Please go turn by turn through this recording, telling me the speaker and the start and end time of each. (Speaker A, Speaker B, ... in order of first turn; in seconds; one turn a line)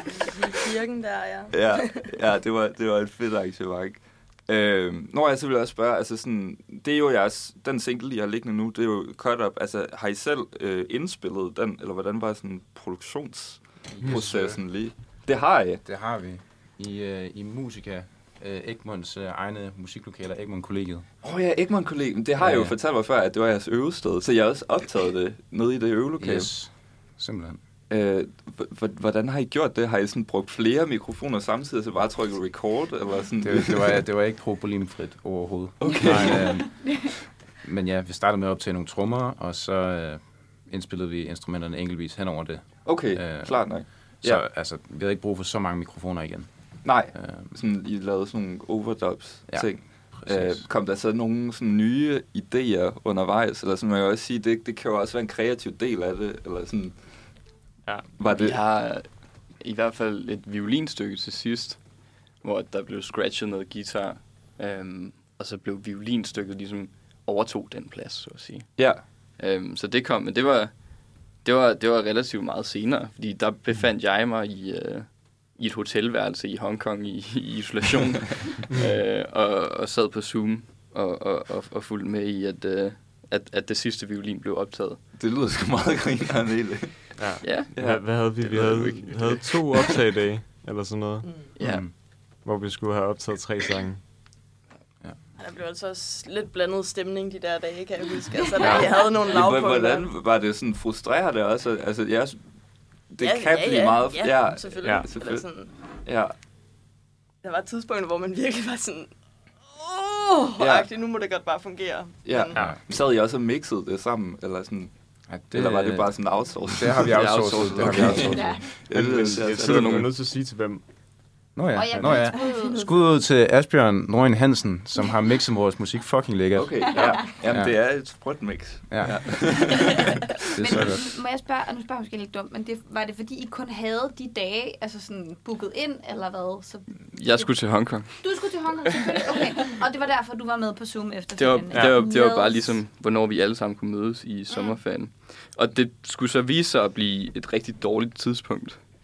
Speaker A: 0.4-2.1
Speaker B: 1.5-15.8
Speaker C: 13.9-15.2
Speaker C: 15.8-21.1
Speaker B: 21.2-26.6
Speaker C: 22.4-22.8
Speaker C: 26.2-27.6
Speaker B: 27.9-34.0
Speaker C: 33.4-47.5
Speaker B: 35.8-36.6
Speaker D: 35.9-37.0
Speaker E: 36.0-36.4
Speaker B: 42.8-44.4
Speaker B: 46.8-57.5
Speaker C: 49.5-50.7
Speaker E: 57.8-58.1
Speaker B: 58.2-58.6
Speaker F: 58.3-85.1
Speaker B: 68.8-69.0
Speaker B: 85.2-87.1
Speaker E: 87.2-91.5
Speaker F: 87.4-89.9
Speaker B: 87.7-88.0
Speaker F: 91.5-91.8
Speaker C: 91.6-91.9
Speaker E: 92.3-94.0
Speaker A: 95.4-100.1
Speaker E: 98.6-98.9
Speaker B: 99.2-105.5
Speaker A: 103.1-105.8
Speaker B: 106.0-106.4
Speaker A: 107.4-112.8
Speaker B: 110.6-110.9
Speaker B: 112.2-120.1
Speaker C: 115.2-118.7
Speaker F: 117.1-118.5
Speaker D: 118.2-118.7
Speaker E: 118.9-120.8
Speaker F: 119.1-120.1
Speaker C: 121.5-128.3
Speaker D: 121.7-123.0
Speaker E: 121.9-122.2
Speaker B: 126.5-129.9
Speaker D: 126.9-127.3
Speaker C: 128.9-129.8
Speaker C: 130.4-131.1
Speaker D: 130.6-142.8
Speaker F: 137.1-139.5
Speaker F: 141.3-148.8
Speaker E: 141.7-142.0
Speaker D: 144.5-144.8